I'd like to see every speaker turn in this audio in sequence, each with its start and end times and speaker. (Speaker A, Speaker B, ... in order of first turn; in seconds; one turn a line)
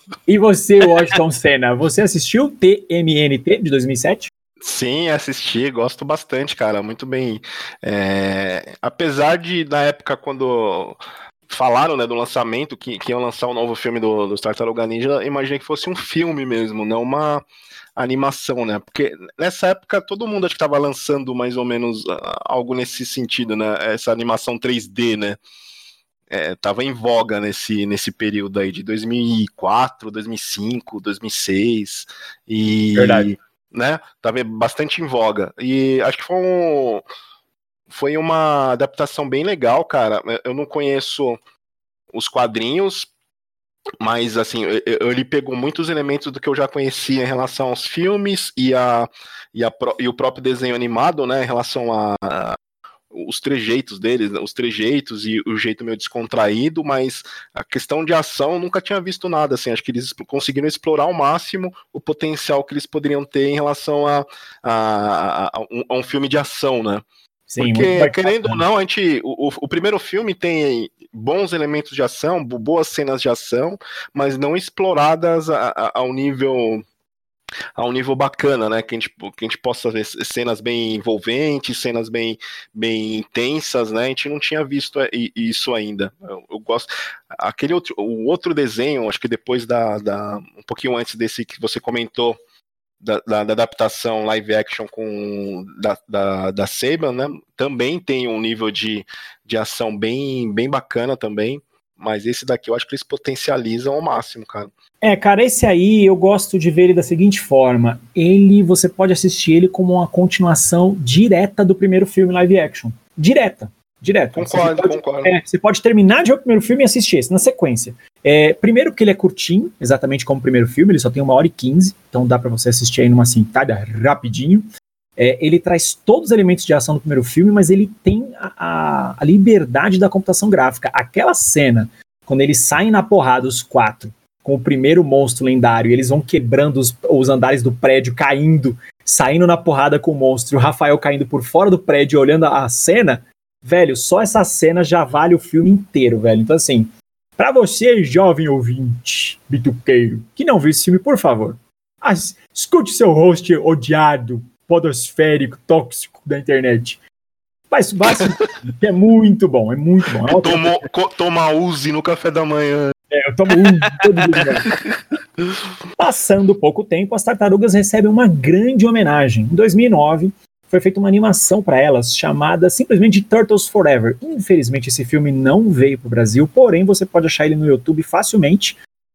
Speaker A: 0.3-4.3
Speaker B: 4.6-11.0
Speaker B: 11.5-25.4
Speaker B: 26.3-37.0
Speaker A: 32.9-33.3
Speaker B: 37.9-41.4
Speaker B: 42.1-43.1
Speaker B: 44.0-52.6
Speaker B: 53.1-67.0
Speaker A: 67.5-68.6
Speaker B: 67.6-76.8
Speaker B: 77.8-92.4
Speaker B: 93.0-104.7
Speaker A: 105.0-124.6
Speaker B: 114.3-115.3
Speaker A: 125.2-157.0
Speaker A: 157.7-160.7
Speaker B: 160.2-162.9
Speaker A: 163.1-164.7
Speaker A: 166.0-178.8